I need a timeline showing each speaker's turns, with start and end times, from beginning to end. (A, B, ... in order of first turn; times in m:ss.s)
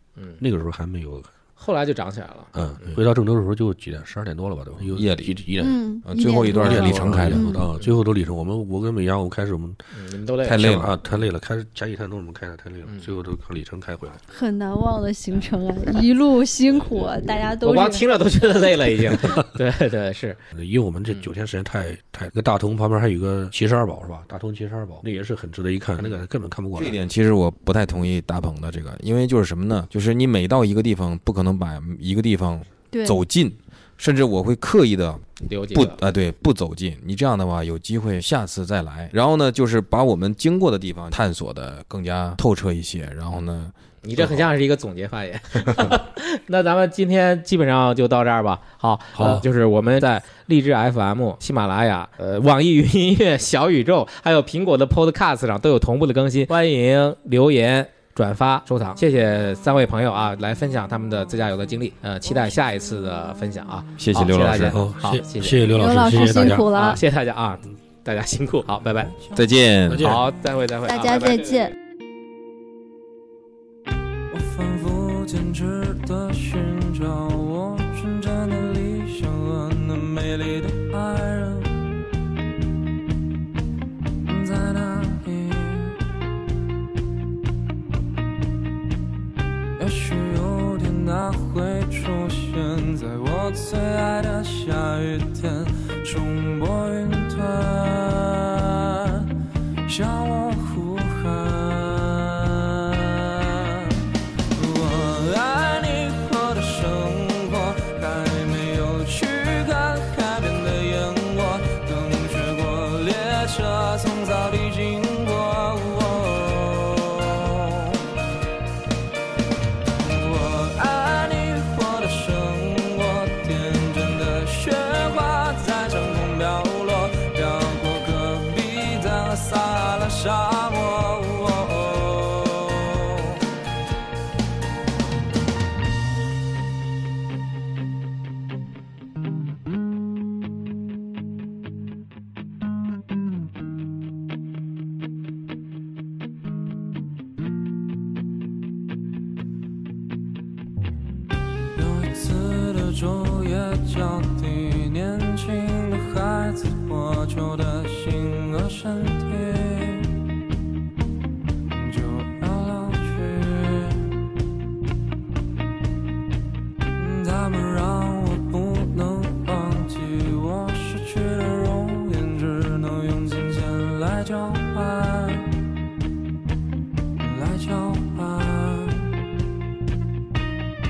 0:00.4-0:01.3 A
0:01.6-0:03.0 B
0:02.5-0:05.8 A
0:04.9-0:05.4 C
0:05.6-0:07.7 D
0:06.0-0:07.6 C
0:06.5-0:09.8 A
0:09.9-0:10.7 B
0:10.4-0:10.9 C
0:10.6-0:14.2 A
0:14.3-0:18.0 D
0:17.6-0:20.4 B
0:20.5-0:27.0 A
0:26.8-0:44.2 C
0:32.9-0:33.2 D
0:35.5-0:36.0 B
0:44.0-1:09.1 B
0:49.1-0:49.4 A
1:04.0-1:04.8 C
1:04.7-1:06.7 A
1:05.7-1:07.0 D
1:09.1-1:09.4 E
1:09.3-1:10.2 C
1:09.9-1:10.2 A
1:10.0-1:11.7 B
1:10.8-1:11.7 D
1:14.3-1:21.9 E
1:24.2-1:26.0 E
1:29.8-1:39.3 E
1:39.8-1:44.0 E
1:44.5-1:58.0 E
2:00.0-2:13.4 E
2:31.7-2:40.1 E
2:41.7-2:44.2 E
2:46.9-2:55.5 E
2:57.2-2:59.2 E